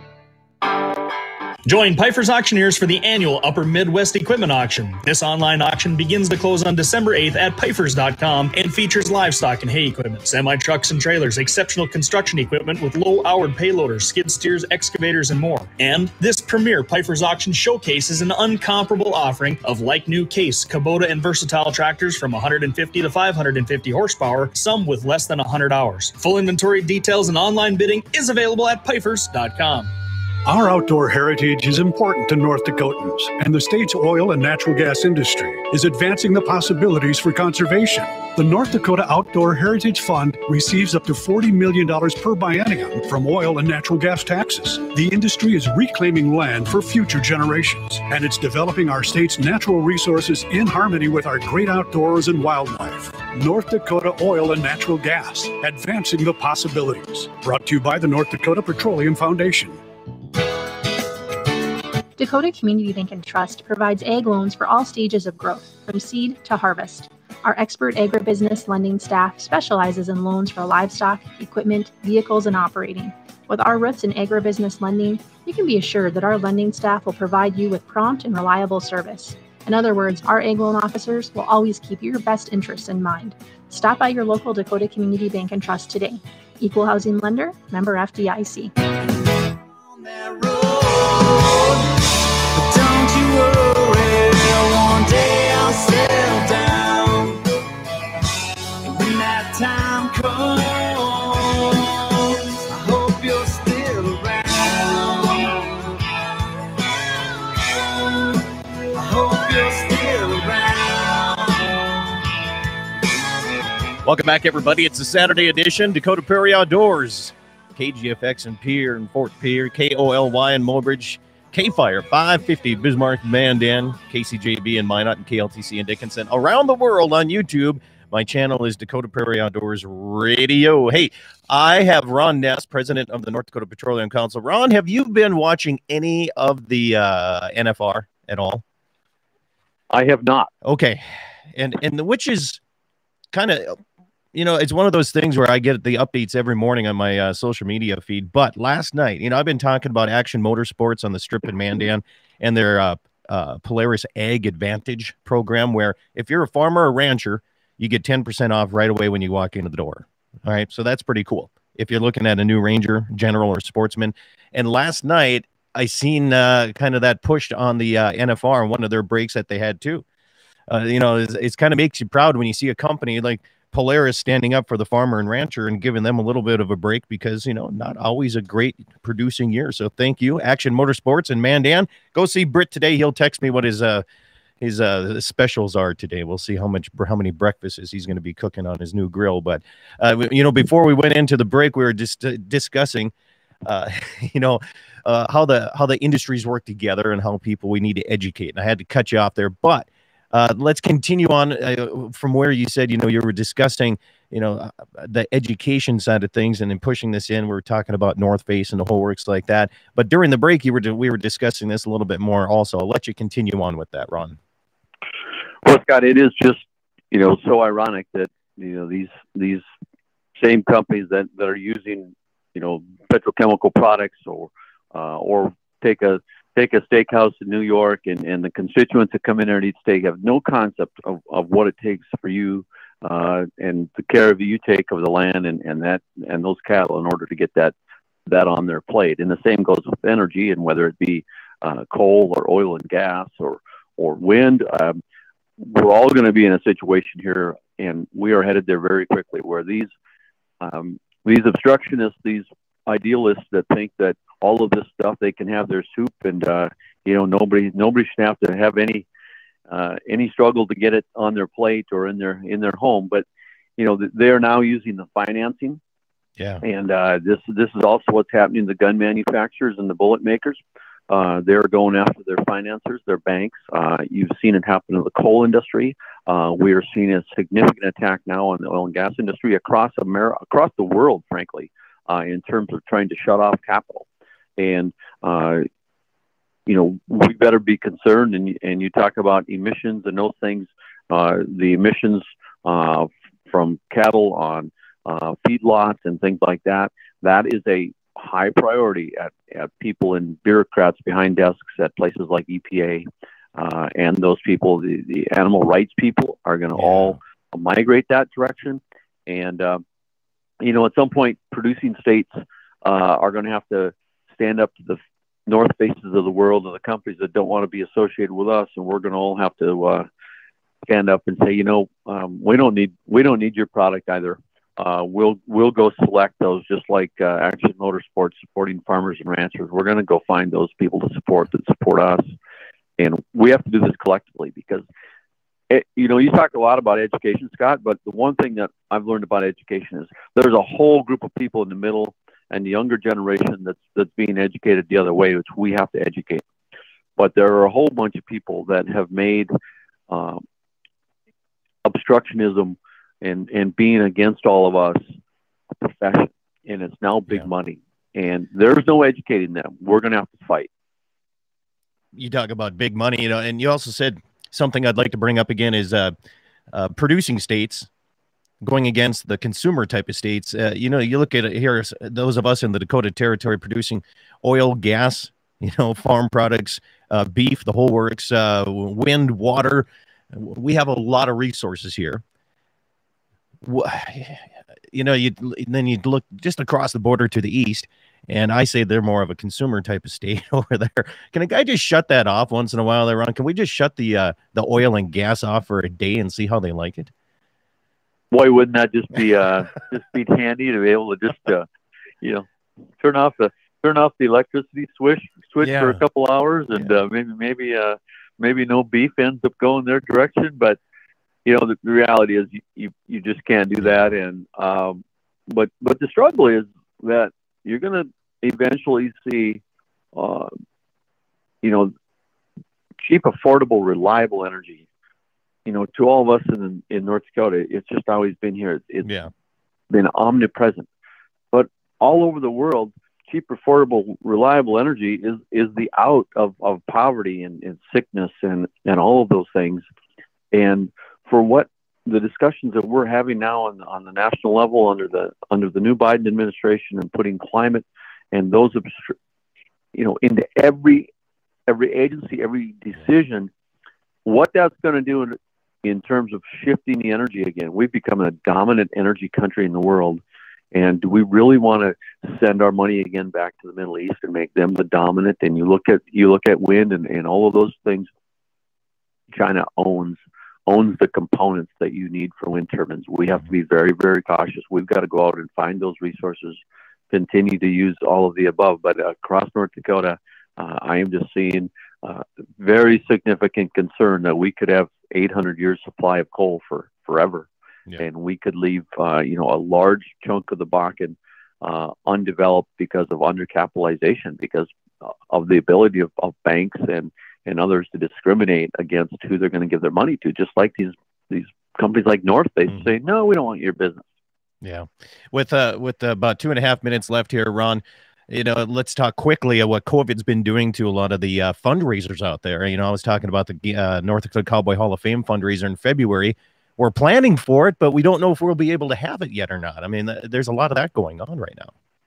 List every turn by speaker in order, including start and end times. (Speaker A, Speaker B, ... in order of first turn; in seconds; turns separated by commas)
Speaker A: 1.6-29.9, Speaker B: 30.4-59.8, Speaker C: 62.2-88.7, Speaker D: 89.6-92.0, Speaker D: 92.5-97.4, Speaker D: 98.8-106.0, Speaker D: 108.9-111.8, Speaker E: 114.0-138.6, Speaker F: 139.9-140.5, Speaker E: 140.6-141.0, Speaker E: 141.5-142.6, Speaker E: 143.3-143.8, Speaker E: 144.3-170.0, Speaker E: 170.7-184.0, Speaker E: 184.6-193.1, Speaker E: 193.6-214.4, Speaker F: 215.6-219.6, Speaker F: 220.4-237.7, Speaker F: 238.2-245.0, Speaker F: 245.6-249.9, Speaker F: 250.6-259.1, Speaker F: 259.7-263.2, Speaker F: 263.8-265.8, Speaker E: 266.4-266.6, Speaker F: 266.6-284.0, Speaker F: 284.6-285.6, Speaker F: 286.6-309.8, Speaker E: 306.8-307.2, Speaker F: 310.6-320.1, Speaker F: 320.9-332.2, Speaker F: 333.0-334.8, Speaker F: 335.7-346.4, Speaker F: 347.2-349.5, Speaker F: 350.1-350.4, Speaker F: 351.8-355.0, Speaker F: 355.8-360.7, Speaker E: 362.1-366.1, Speaker E: 366.7-367.9, Speaker E: 368.6-382.2, Speaker E: 383.6-397.1, Speaker F: 398.3-401.6, Speaker F: 403.0-410.8, Speaker E: 405.6-406.0, Speaker F: 411.4-419.6, Speaker F: 420.1-420.5, Speaker F: 421.6-421.9, Speaker F: 423.0-424.8, Speaker F: 425.6-429.1, Speaker E: 429.0-429.3, Speaker F: 429.9-430.9, Speaker F: 431.5-439.8, Speaker F: 440.5-449.1, Speaker F: 449.9-451.1, Speaker F: 451.7-453.5, Speaker F: 454.2-460.2, Speaker F: 460.7-468.1, Speaker F: 469.3-476.6, Speaker F: 477.1-504.0, Speaker E: 504.6-521.7